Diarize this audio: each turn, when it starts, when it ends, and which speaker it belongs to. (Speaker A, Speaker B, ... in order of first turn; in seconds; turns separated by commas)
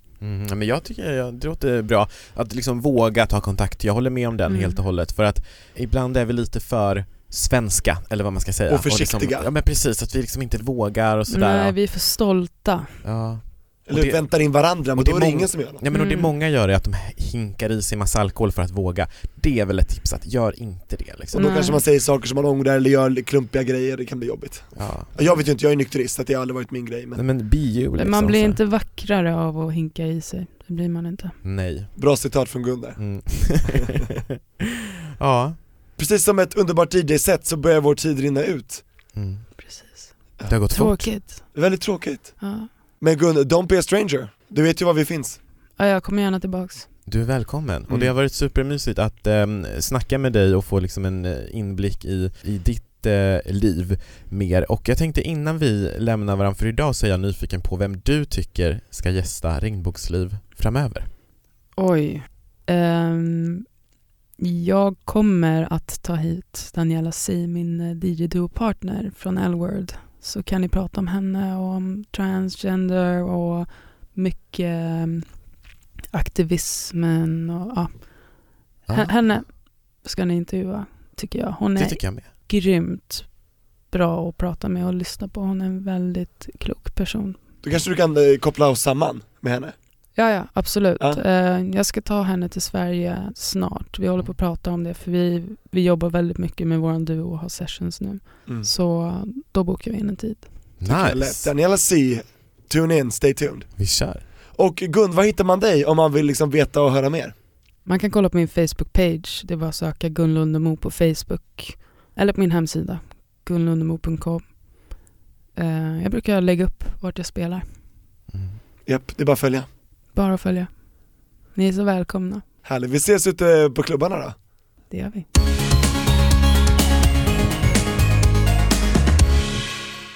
Speaker A: 0.2-11.8, Speaker B: 4.5-4.8, Speaker C: 8.7-9.5, Speaker B: 11.3-12.9, Speaker A: 13.0-21.5, Speaker C: 13.9-15.8, Speaker B: 15.9-16.3, Speaker B: 21.3-21.8, Speaker C: 21.3-27.2, Speaker A: 24.8-25.1, Speaker A: 27.2-28.6, Speaker B: 27.9-31.4, Speaker A: 31.4-31.9, Speaker C: 32.0-33.9, Speaker A: 33.0-34.0, Speaker A: 35.2-35.6, Speaker C: 36.0-38.9, Speaker A: 39.1-39.6, Speaker B: 39.6-41.9, Speaker A: 40.5-41.2, Speaker C: 41.5-45.4, Speaker B: 42.4-42.7, Speaker B: 45.8-46.9, Speaker A: 47.1-61.1, Speaker B: 61.8-63.6, Speaker B: 64.4-75.5, Speaker B: 76.1-87.4, Speaker A: 78.9-79.5, Speaker A: 81.8-82.3, Speaker C: 87.6-89.8, Speaker B: 90.2-100.5, Speaker A: 100.8-101.5, Speaker C: 100.8-107.3, Speaker A: 103.8-104.2, Speaker B: 107.8-117.8, Speaker A: 118.3-118.6, Speaker C: 118.9-119.7, Speaker B: 120.1-122.4, Speaker C: 122.6-124.3, Speaker B: 124.9-125.3